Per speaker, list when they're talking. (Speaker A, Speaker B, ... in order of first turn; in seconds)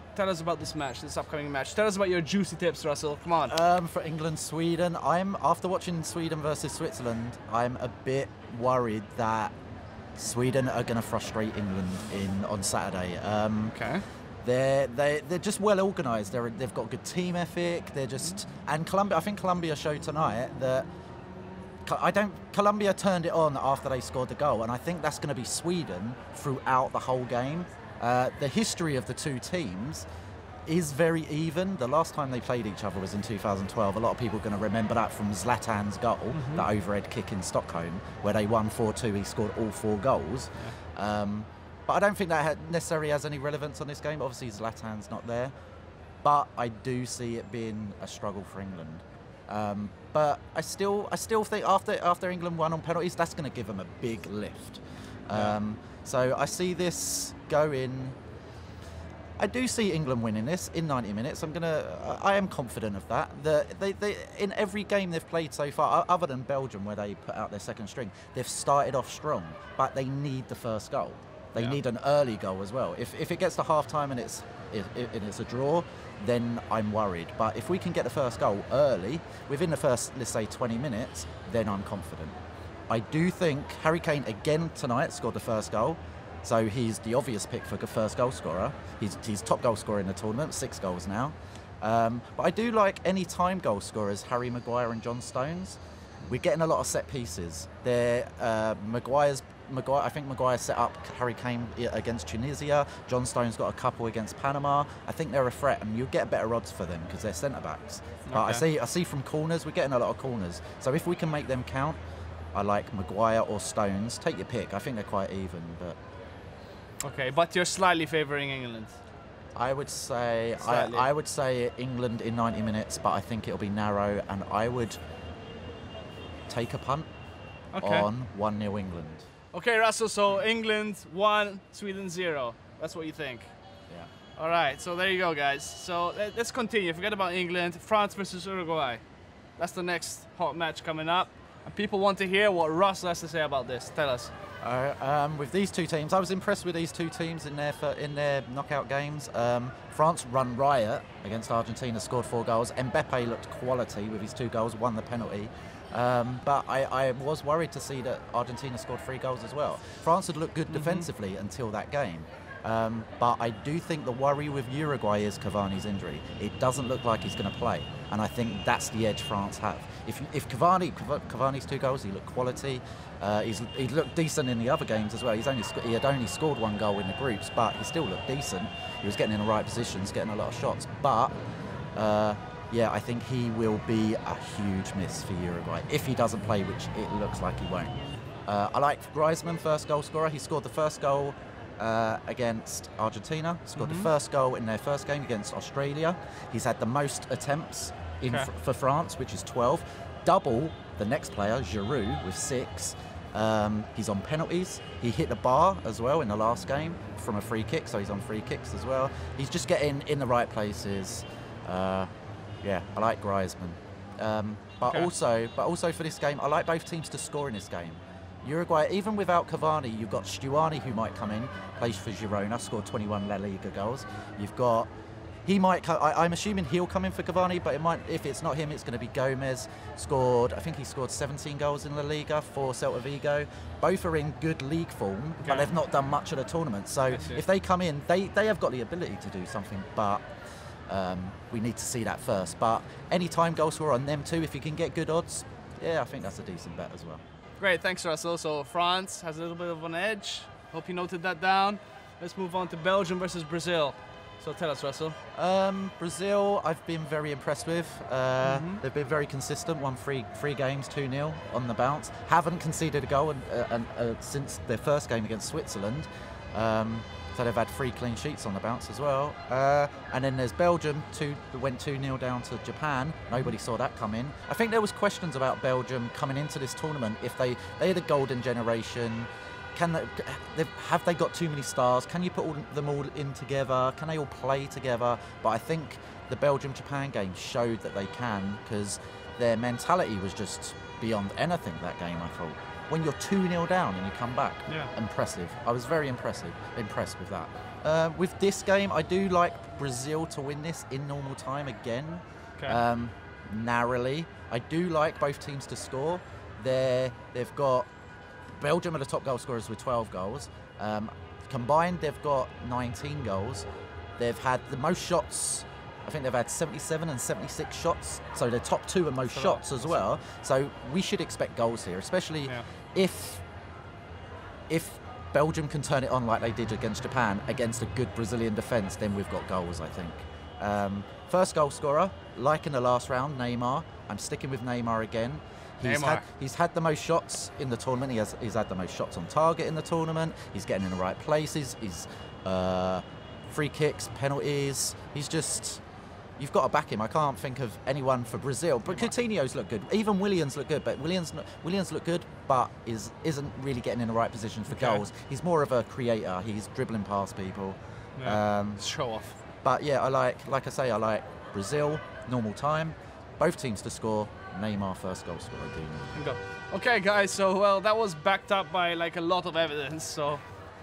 Speaker A: 0.1-3.5, 13.7-14.1, 36.3-36.7, 55.3-55.6, 108.2-108.7, 117.0-119.0, 120.6-121.1, 127.7-128.1, 129.5-133.5, 134.4-139.0, 139.6-144.3, 160.7-161.1, 193.8-194.1, 235.4-235.7, 237.1-237.4, 247.6-255.2, 258.4-258.8, 294.7-294.9, 319.2-320.0, 335.8-336.2, 354.7-355.0, 358.2-359.4, 366.1-370.4
Speaker B: 3.5-9.5, 10.2-13.8, 14.4-20.9, 21.9-30.1, 30.7-45.5, 46.2-58.1, 59.4-82.3, 82.9-112.0, 112.5-116.0, 119.5-125.0, 126.5-127.1, 127.8-129.3, 144.6-181.3, 181.9-212.1, 212.6-224.9, 225.4-240.2, 240.9-247.2, 255.3-307.9, 308.6-313.6, 314.2-323.4, 324.7-345.8, 346.4-358.8, 359.6-366.1